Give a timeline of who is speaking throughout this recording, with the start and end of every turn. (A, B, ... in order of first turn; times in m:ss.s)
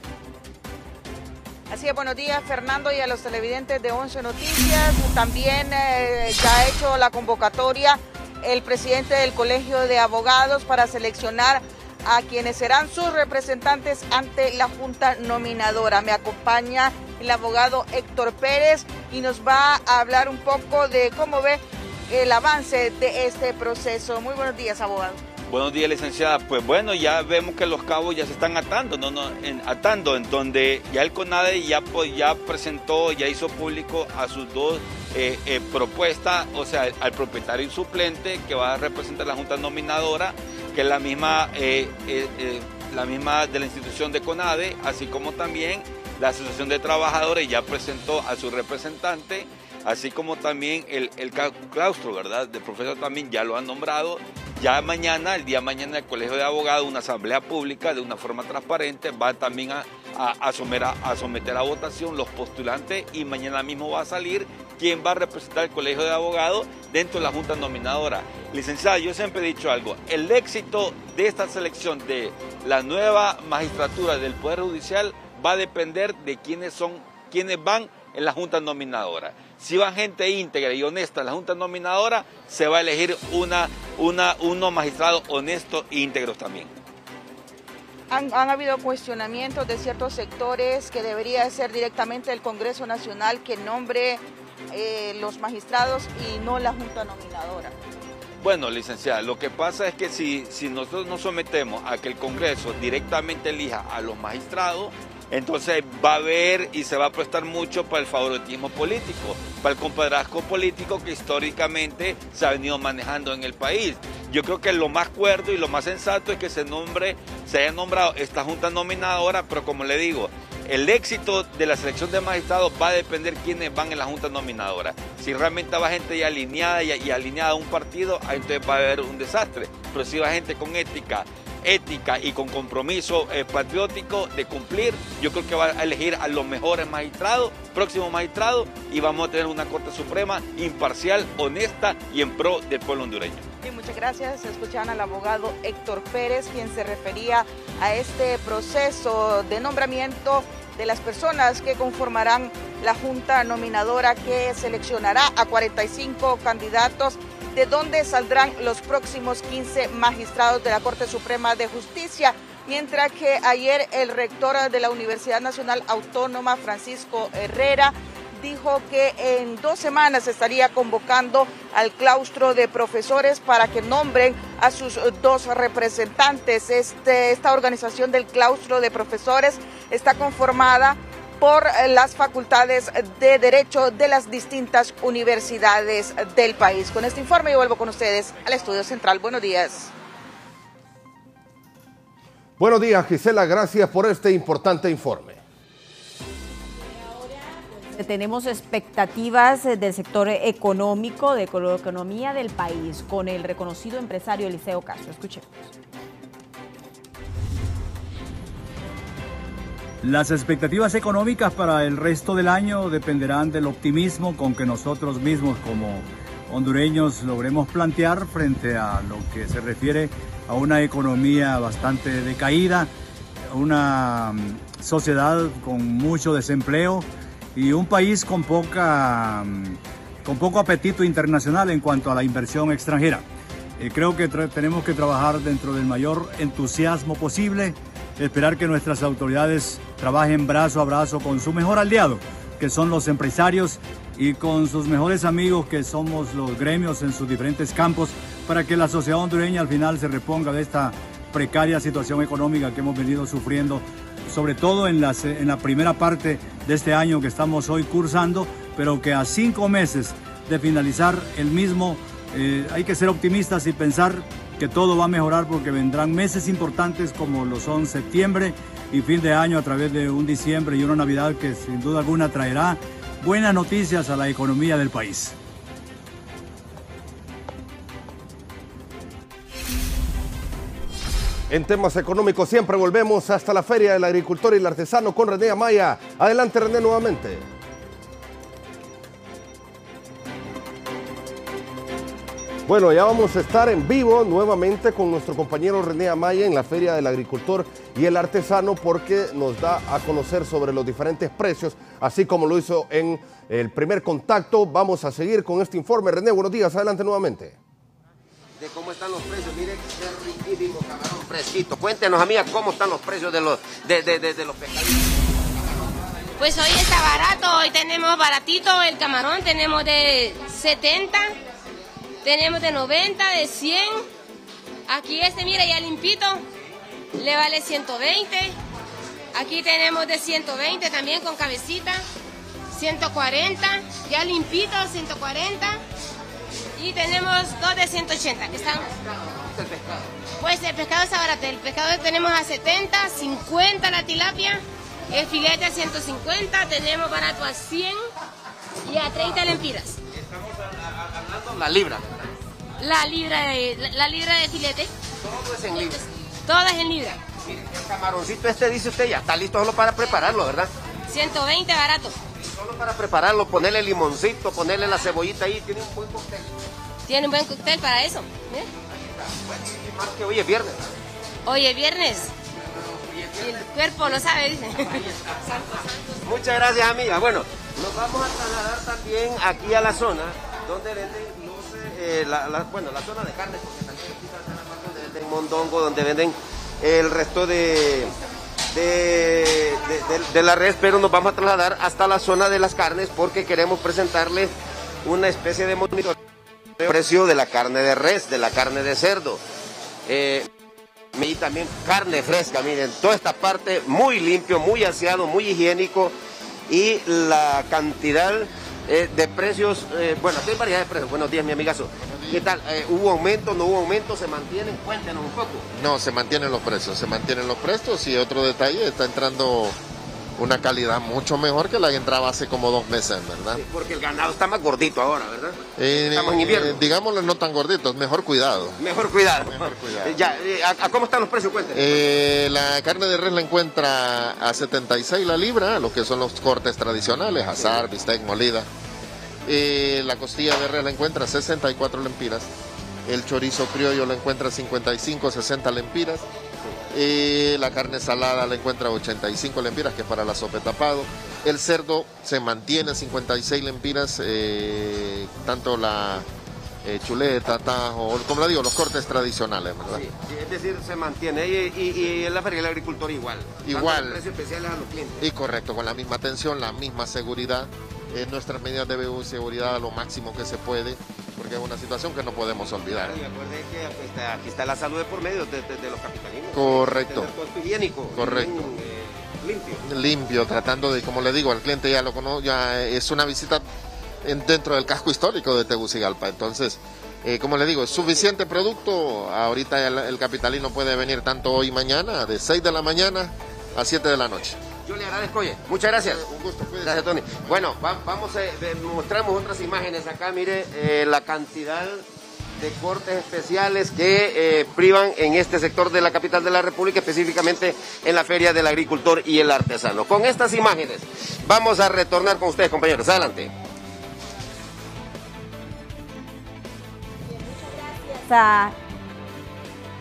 0:01.7-0:25.2 A
0:25.5-1:26.7 B
1:28.1-1:37.8 A
1:38.4-2:23.5 B
2:23.6-3:09.9 A
3:12.6-3:15.4 C
3:17.0-3:25.7 D
3:30.0-3:42.9 E
3:43.5-3:53.2 E
3:53.8-4:35.3 E
4:41.5-4:47.5 C
4:52.7-5:07.6 C
5:08.6-5:15.9 F
5:16.4-5:21.3 G
5:22.2-5:24.0 G
5:24.9-5:26.4 G
5:27.2-5:28.6 G
5:29.4-5:32.0 G
5:32.7-5:35.8 G
5:36.8-5:38.9 G
5:38.5-5:40.1 F
5:40.4-5:48.0 G
5:48.9-5:50.0 G
5:50.1-5:52.3 F
5:52.8-5:54.9 G
5:55.2-5:56.1 F
5:56.5-5:57.2 G
5:57.4-6:00.7 F
6:01.1-6:02.1 G
6:02.4-6:06.5 F
6:07.1-6:08.7 G
6:08.9-6:10.9 F
6:11.5-6:12.3 G
6:12.6-6:14.3 F
6:13.4-6:14.9 G
6:14.9-6:28.1 F
6:28.7-6:34.5 F
6:35.0-6:36.2 F
6:36.8-6:39.4 F
6:40.1-6:40.5 F
6:41.2-6:46.1 F
6:46.7-6:55.6 F
6:55.7-6:59.8 H
7:00.4-7:03.6 H
7:03.6-7:05.6 F
7:05.8-7:08.8 H
7:06.1-7:06.8 F
7:08.8-7:12.0 F
7:09.5-7:10.2 H
7:11.7-7:18.7 H
7:19.5-7:22.5 H
7:23.1-7:26.3 H
7:26.9-7:36.3 H
7:36.8-7:40.0 H
7:39.9-7:45.2 F
7:43.6-7:44.2 H
7:45.2-7:53.2 H
7:53.0-7:59.8 F
7:56.5-7:57.3 H
7:58.1-7:58.8 H
7:59.9-8:03.6 H
8:04.2-8:14.6 H
8:14.9-8:16.3 F
8:16.1-8:17.7 H
8:16.8-8:22.0 F
8:22.6-8:33.5 F
8:37.4-8:38.8 D